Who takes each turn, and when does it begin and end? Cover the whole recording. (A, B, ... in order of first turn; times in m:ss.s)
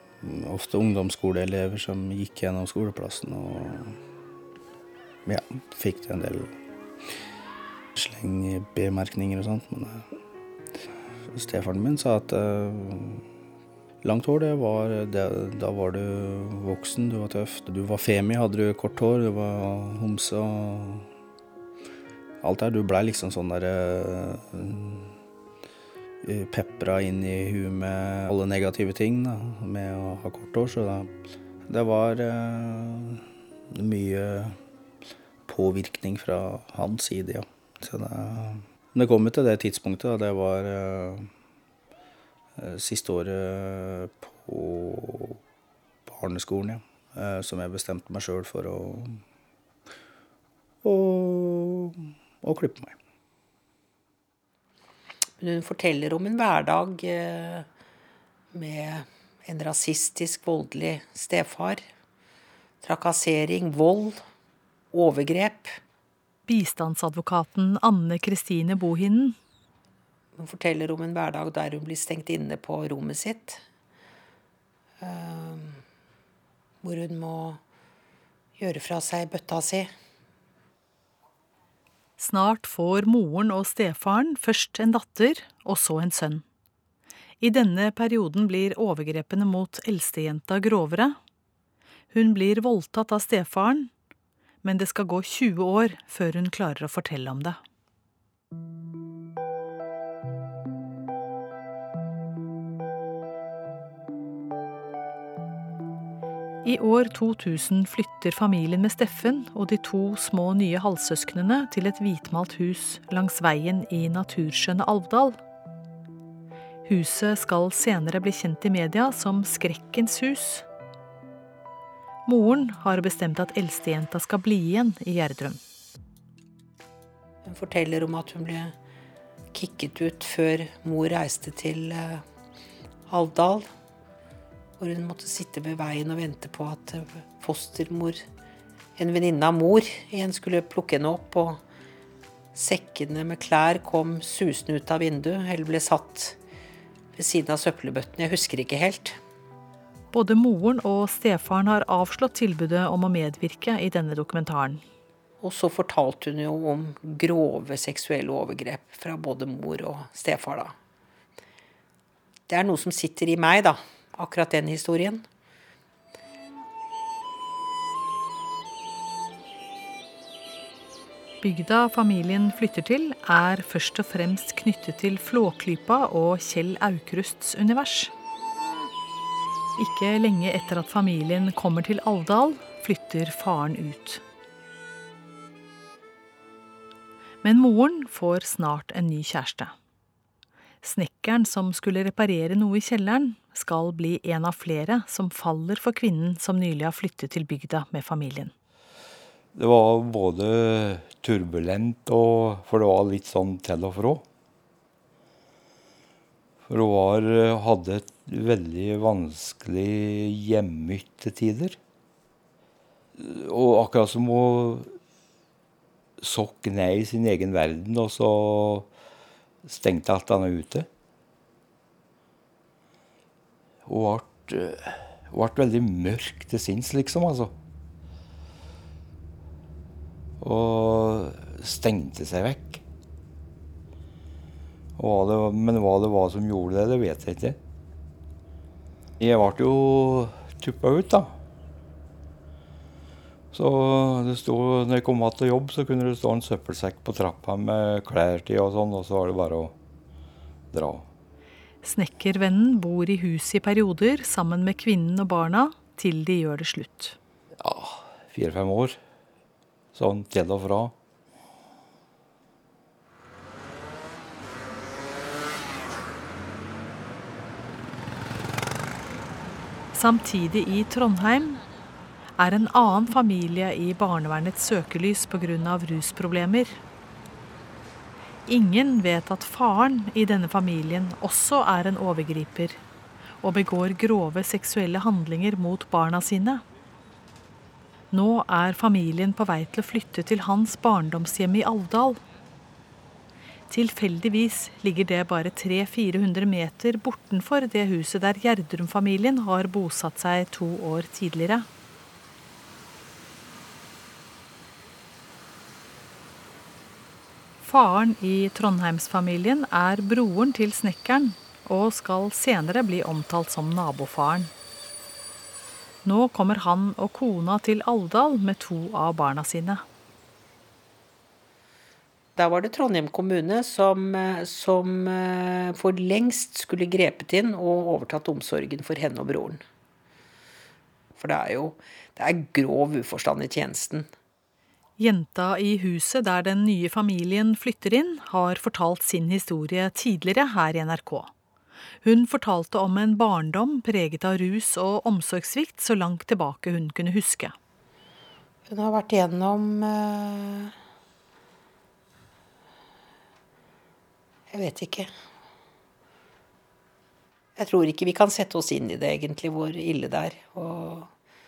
0:00.2-0:04.0 A
0:05.3-0:06.5 A
0:08.0-0:10.1 A
0:11.3-0:13.2 A
0:14.0-0:21.1 A
0:22.4-0:25.1 A
0:26.2-0:31.1 A
0:31.7-0:34.6 A
0:35.5-0:41.3 A
0:42.6-0:45.4 A
0:46.1-0:49.2 A
0:50.8-0:53.0 A
0:55.4-0:57.7 B
0:58.5-1:01.8 B
1:02.8-1:04.2 B
1:04.9-1:05.8 B
1:06.5-1:09.4 C
1:10.4-1:13.6 B
1:15.0-1:15.8 B
1:16.8-1:17.6 B
1:18.6-1:19.9 B
1:22.2-1:26.4 C
1:27.4-1:31.2 C
1:32.1-1:33.9 C
1:34.6-1:37.6 C
1:46.6-1:55.4 C
1:56.8-2:00.6 C
2:02.3-2:05.6 C
2:07.4-2:08.8 B
2:09.5-2:12.2 B
2:13.1-2:13.7 B
2:14.8-2:18.2 B
2:19.0-2:21.6 B
2:22.5-2:26.4 B
2:27.2-2:29.2 B
2:30.1-2:34.8 C
2:35.4-2:40.8 B
2:42.5-2:45.2 B
2:51.4-2:58.1 C
2:59.8-3:04.2 C
3:07.4-3:09.7 C
3:10.8-3:18.5 C
3:19.6-3:24.2 D
3:26.7-3:31.8 D
3:33.2-3:35.0 D
3:36.2-3:38.9 D
3:39.6-3:40.9 D
3:43.9-3:47.5 D
3:50.4-3:52.8 D
3:55.0-3:57.6 D
3:59.2-4:01.4 D
4:03.5-4:09.8 D
4:10.7-4:11.1 D
4:11.8-4:17.2 C
4:17.6-4:19.0 D
4:19.9-4:20.9 D
4:29.9-4:31.6 C
4:32.4-4:36.8 C
4:38.5-4:42.8 C
4:43.4-4:46.6 C
4:48.1-4:52.2 C
4:53.7-5:01.7 C
5:07.6-5:14.5 C
5:16.0-5:19.8 C
5:22.4-5:29.6 B
5:31.2-5:34.1 B
5:35.0-5:41.3 C
5:42.0-5:47.6 C
5:48.7-5:50.7 B
5:54.5-5:55.1 B
5:57.6-6:01.1 B